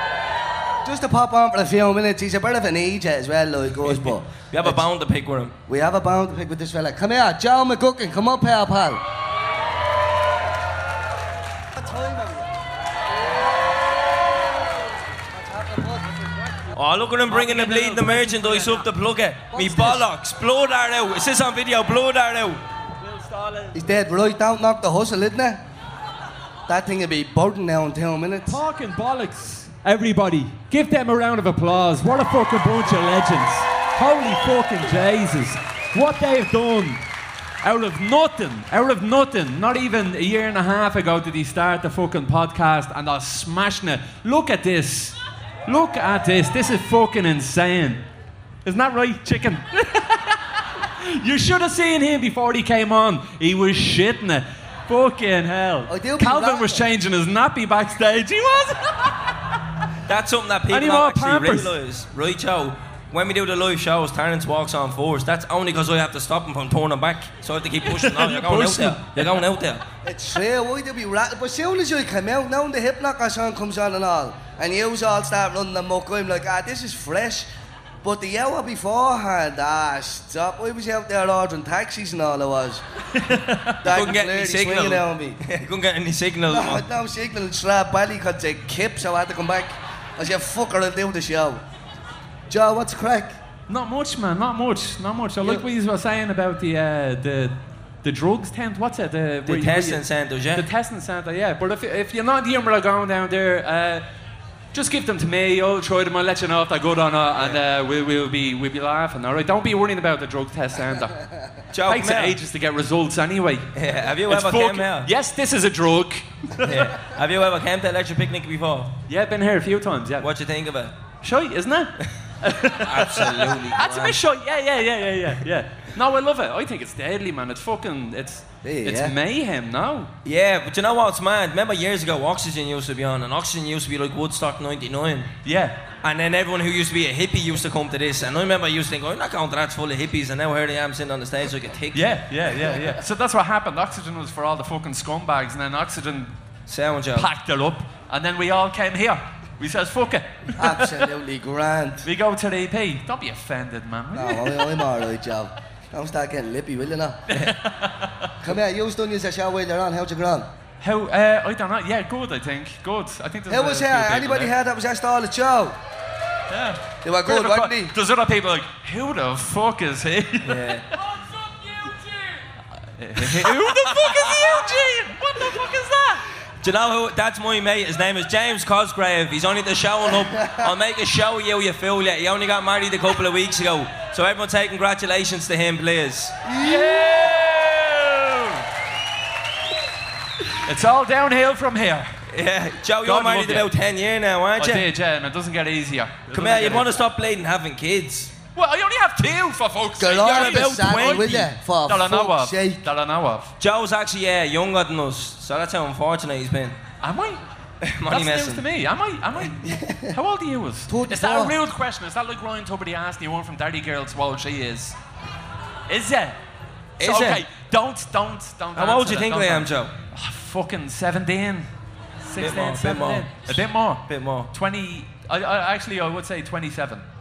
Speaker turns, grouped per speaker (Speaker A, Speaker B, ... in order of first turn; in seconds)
Speaker A: 0.8-4.8, 5.7-9.0, 11.8-12.5, 15.3-16.4, 19.5-20.0, 23.7-25.6, 26.7-28.6, 55.9-56.9, 70.0-77.5, 78.0-82.8, 83.8-85.4, 86.5-91.6, 92.5-93.4, 128.6-129.1, 150.6-152.1, 154.1-157.4, 158.4-160.5, 163.5-165.8, 167.0-167.9, 180.4-180.7, 186.4-187.2, 200.0-202.8, 209.7-210.1, 210.9-211.5
Speaker B: 3.8-5.6, 16.7-22.6, 60.1-69.8, 83.8-86.8, 99.4-100.7, 111.7-112.4, 113.7-115.1, 116.6-119.0, 120.2-120.9, 122.7-124.2, 130.2-135.3, 136.0-142.2, 146.7-147.3, 170.4-170.9, 173.8-174.0, 176.6-186.4, 192.3-194.8, 196.3-198.3, 200.2-201.5, 203.6-206.8, 207.8-208.6, 217.0-217.4, 218.8-219.9, 222.4-224.5
Speaker C: 17.3-18.8, 23.0-23.7, 28.5-37.0, 37.6-48.0, 48.6-50.4, 51.0-59.3, 60.7-61.7, 67.9-69.4, 83.2-83.7, 93.7-100.0, 100.5-104.0, 104.7-111.2, 111.8-113.7, 114.3-116.9, 119.1-120.3, 121.2-130.1, 135.4-135.8, 141.9-146.3, 147.1-150.9, 152.0-154.7, 157.3-158.3, 160.8-164.5, 166.5-170.7, 172.9-176.2, 186.6-188.6, 190.5-192.1, 193.0-193.7, 194.6-197.0, 198.5-203.5, 207.0-207.4, 208.1-215.0, 215.9-216.4, 217.0-221.7, 222.2-227.0